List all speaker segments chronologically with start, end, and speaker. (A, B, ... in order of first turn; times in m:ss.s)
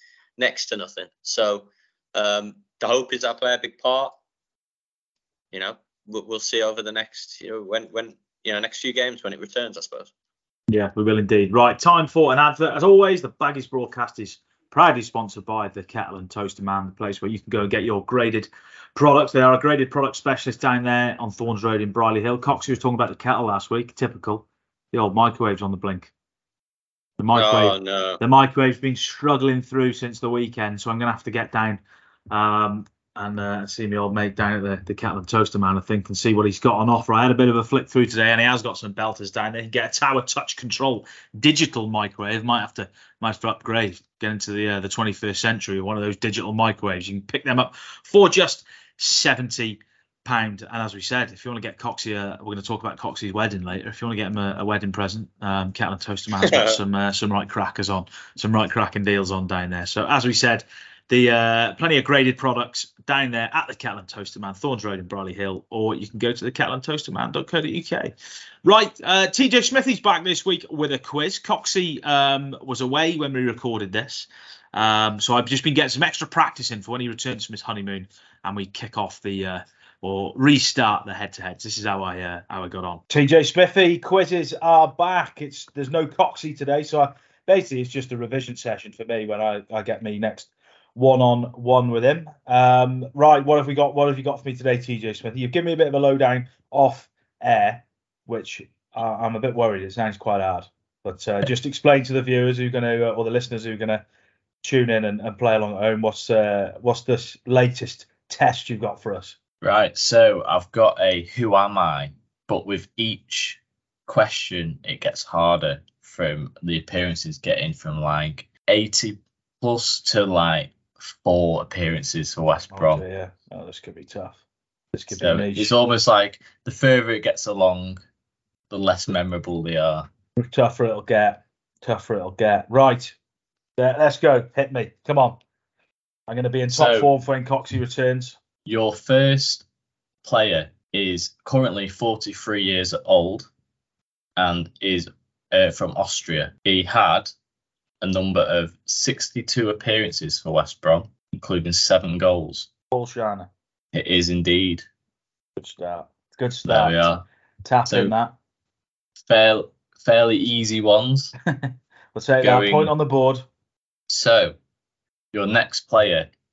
0:00.4-0:04.1 A
0:05.5-0:10.1 A
0:10.7-0:26.1 B
0:27.2-1:08.1 B
0:27.3-0:28.2 A
0:56.4-0:56.8 A
1:08.6-1:44.0 B
1:44.6-1:49.3 B
1:49.6-2:03.0 C
2:02.7-2:04.4 B
2:04.9-2:05.7 B
2:05.1-2:08.0 C
2:08.7-2:10.1 C
2:10.4-2:13.2 B
2:13.8-2:15.4 B
2:16.3-2:18.4 B
2:16.7-2:17.1 C
2:18.6-2:19.6 C
2:20.2-2:23.5 C
2:24.4-2:27.3 C
2:28.0-2:32.7 C
2:32.9-2:33.5 B
2:33.9-2:34.8 C
2:35.6-2:38.4 B
2:36.6-2:37.2 C
2:37.9-2:38.1 C
2:39.3-2:41.3 C
2:41.5-2:43.4 B
2:42.4-2:42.9 C
2:44.1-2:44.6 C
2:45.3-2:46.3 C